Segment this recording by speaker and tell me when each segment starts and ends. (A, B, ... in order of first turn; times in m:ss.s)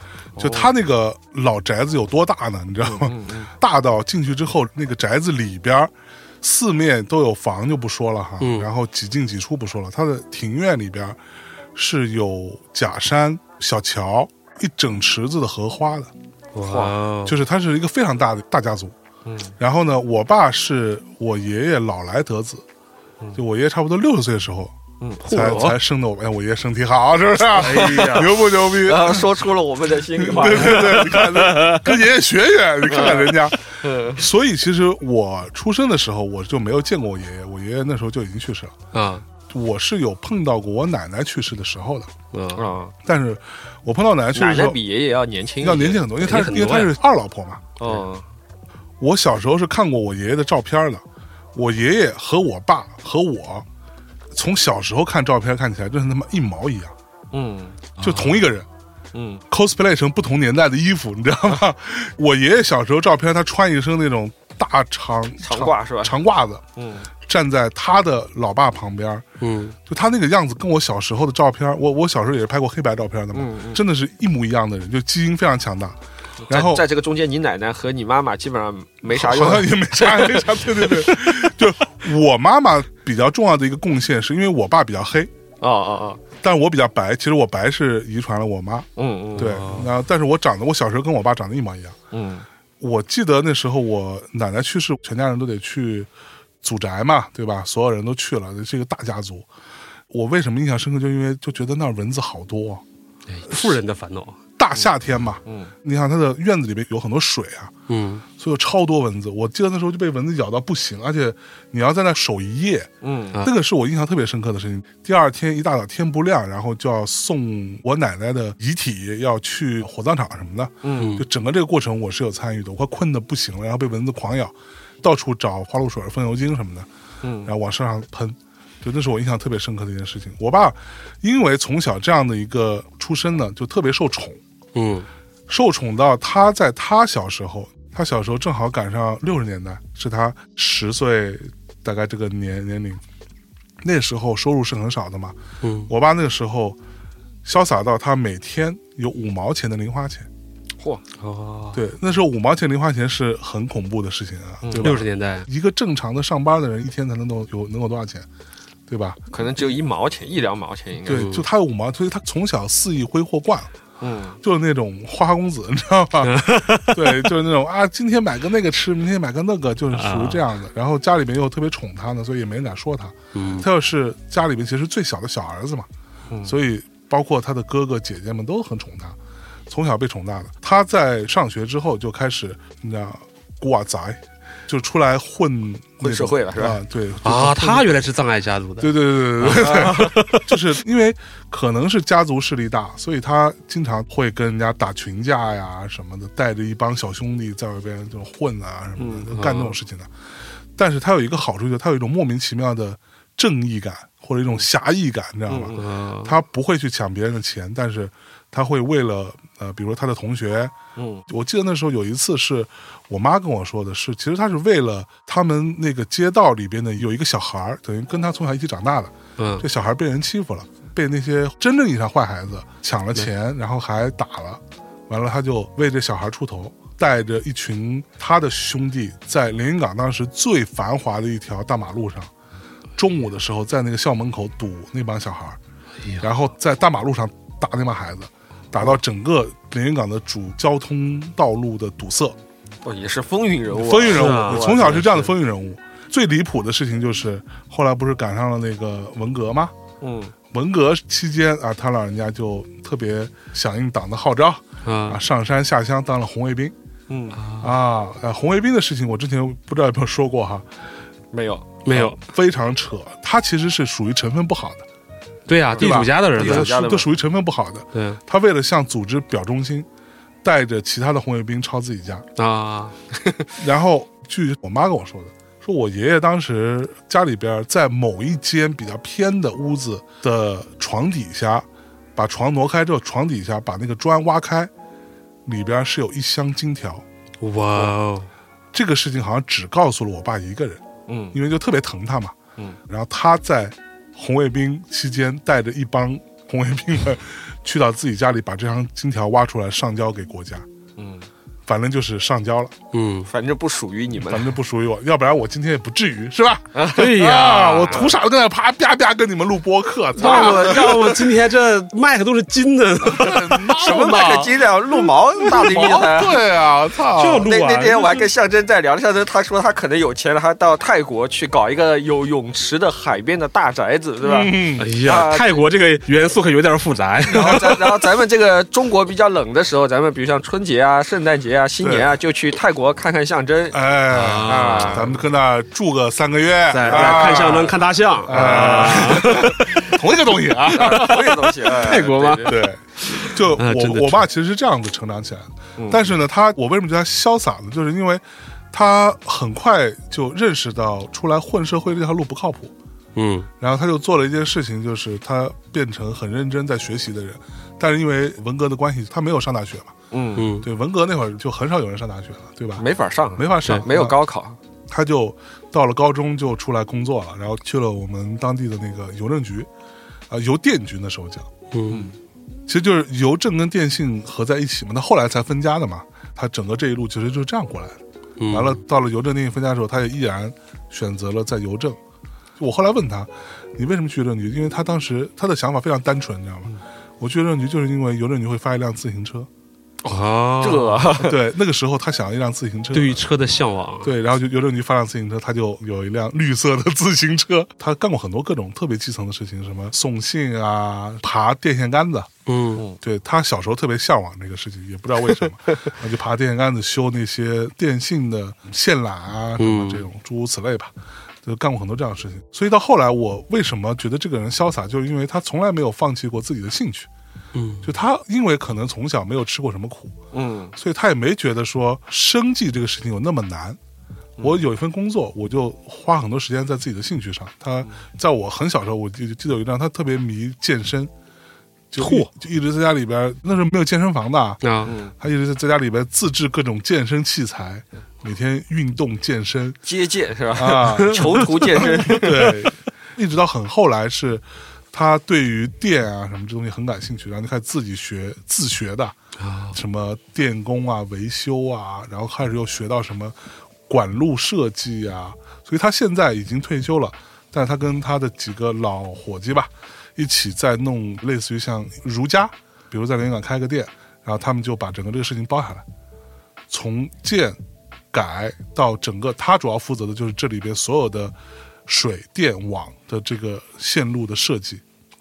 0:00.4-0:00.7 A
0:00.4-0:11.2 B
0:02.8-0:03.5 A
0:08.4-0:08.7 C
0:11.8-0:16.1 B
0:16.6-0:17.4 C
0:16.6-0:16.9 A
0:17.2-0:19.0 B
0:19.2-0:19.5 A
0:19.6-0:22.6 B
0:23.4-0:24.7 B
0:25.2-0:25.8 C
0:25.3-0:29.3 B
0:27.6-0:28.4 C
0:27.6-0:31.2 A
0:30.2-0:38.7 B
0:30.4-0:32.0 C
0:32.9-0:34.2 A
0:38.9-0:39.2 C
0:39.5-0:42.1 B
0:42.3-0:42.7 C
0:42.6-0:42.9 A
0:43.0-0:44.8 B
0:44.4-0:46.1 A
0:45.6-0:47.6 B
0:46.2-0:47.0 C
0:47.8-0:48.2 A
0:49.0-0:51.0 B
0:51.5-0:53.7 B
0:54.3-0:56.9 B
0:57.3-0:57.8 A
0:58.0-0:58.4 C
0:58.0-0:58.7 B
0:59.1-0:59.4 A
0:59.5-1:06.6 B
1:05.4-1:06.2 A
1:06.8-1:07.1 A
1:07.2-1:09.2 B
1:09.4-1:09.8 C
1:09.9-1:16.0 B
1:13.3-1:13.8 A
1:16.4-1:21.1 A
1:16.5-1:16.8 B
1:19.1-1:25.3 B
1:25.6-1:26.2 A
1:26.4-1:32.0 B
1:29.0-1:29.7 A
1:29.4-1:29.9 C
1:32.1-1:32.4 A
1:32.8-1:36.1 B
1:36.6-1:39.5 B
1:40.1-1:42.8 B
1:43.3-1:44.4 C
1:43.5-1:43.8 B
1:44.6-1:47.7 B
1:45.4-1:45.7 A
1:47.9-1:48.2 C
1:48.4-1:52.9 B
1:53.0-1:53.4 A
1:53.4-2:06.9 B
2:00.8-2:01.2 A
2:01.0-2:01.3 C
2:07.2-2:07.5 A
2:07.4-2:14.4 B
2:14.8-2:15.1 C
2:15.5-2:23.0 B
2:23.8-2:26.8 B
2:25.6-2:25.9 C
2:27.4-2:30.3 B
2:31.2-2:31.8 C
2:31.7-2:38.3 B
2:34.6-2:34.9 A
2:34.8-2:35.5 C
2:38.9-2:39.2 B
2:39.3-2:41.3 A
2:41.1-2:43.7 B
2:41.1-2:41.5 C
2:44.0-2:44.4 A
2:44.4-2:55.9 B
2:46.2-2:47.3 C
2:49.9-2:50.4 C
2:53.3-2:53.7 C
2:56.3-2:56.6 A
2:56.4-2:59.2 B
2:59.7-3:07.9 B
3:06.0-3:06.8 A
3:07.2-3:10.6 C
3:08.8-3:20.1 B
3:09.6-3:10.1 A
3:19.0-3:19.3 A
3:19.3-3:19.8 C
3:20.8-3:30.7 B
3:25.5-3:25.8 A
3:25.7-3:26.4 C
3:31.0-3:31.2 A
3:31.3-3:52.3 B
3:39.4-3:39.7 C
3:53.0-3:55.6 B
3:56.0-3:56.3 C
3:56.2-4:02.4 B
4:02.8-4:05.1 A
4:03.7-4:09.7 B
4:04.1-4:05.3 C
4:10.0-4:10.3 A
4:10.5-4:16.8 B
4:14.8-4:15.2 C
4:17.1-4:17.4 A
4:17.4-4:17.7 C
4:17.6-4:20.7 B
4:21.3-4:21.7 A
4:21.8-4:22.2 C
4:21.9-4:24.8 B
4:25.5-4:26.7 C
4:25.7-4:27.1 A
4:25.8-4:29.9 B
4:27.9-4:28.2 C
4:30.4-4:32.3 B
4:32.4-4:33.0 C
4:33.6-4:44.7 B
4:45.4-4:47.0 B
4:47.4-4:48.3 C
4:48.7-4:50.8 B
4:51.1-4:51.4 A
4:51.3-4:52.4 B
4:52.9-5:00.7 B
5:01.0-5:01.3 A
5:01.7-5:02.7 B
5:02.9-5:03.3 C
5:03.3-5:04.5 A
5:04.3-5:11.0 B
5:06.7-5:07.2 A
5:07.0-5:08.1 C
5:10.2-5:11.2 A
5:10.2-5:14.2 C
5:13.1-5:14.5 B
5:13.8-5:16.4 A
5:15.4-5:17.5 B
5:17.2-5:18.2 C
5:17.4-5:25.6 A
5:24.2-5:24.9 B
5:24.8-5:27.8 C
5:27.3-5:33.8 A
5:27.4-5:27.7 B
5:31.8-5:32.1 B
5:33.7-5:41.4 B
5:34.1-5:35.2 C
5:34.6-5:35.1 A
5:36.7-5:40.0 C
5:36.8-5:39.5 A
5:40.7-5:42.6 A
5:40.7-5:44.2 C
5:42.4-5:52.7 B
5:45.8-5:46.1 A
5:53.2-5:53.5 C
5:53.6-6:00.0 B
6:00.1-6:00.5 A
6:00.4-6:00.7 C
6:00.6-6:04.2 B
6:02.8-6:04.6 A
6:04.9-6:09.7 B
6:10.3-6:11.5 B
6:11.7-6:12.1 C
6:11.9-6:12.2 A
6:12.7-6:22.0 B
6:18.4-6:18.8 C
6:22.6-6:29.5 B
6:30.0-6:31.1 C
6:30.6-6:31.4 A
6:31.2-6:33.2 B
6:32.9-6:34.1 C
6:34.0-6:42.3 B
6:42.5-6:42.8 C
6:43.0-6:50.9 B
6:49.6-6:50.0 C
6:51.4-6:57.1 B
6:57.5-6:57.9 C
6:57.8-7:00.2 B
7:00.3-7:00.8 A
7:00.8-7:03.8 B
7:04.4-7:11.1 B
7:11.9-7:19.8 B
7:12.0-7:12.3 C
7:14.6-7:14.9 C
7:14.8-7:15.1 A
7:19.8-7:22.6 A
7:20.6-7:29.2 B
7:20.9-7:22.2 C
7:29.4-7:29.8 C
7:29.7-7:33.4 B
7:33.9-7:45.8 B
7:46.7-7:47.6 B
7:48.1-7:51.3 B
7:51.9-7:54.8 B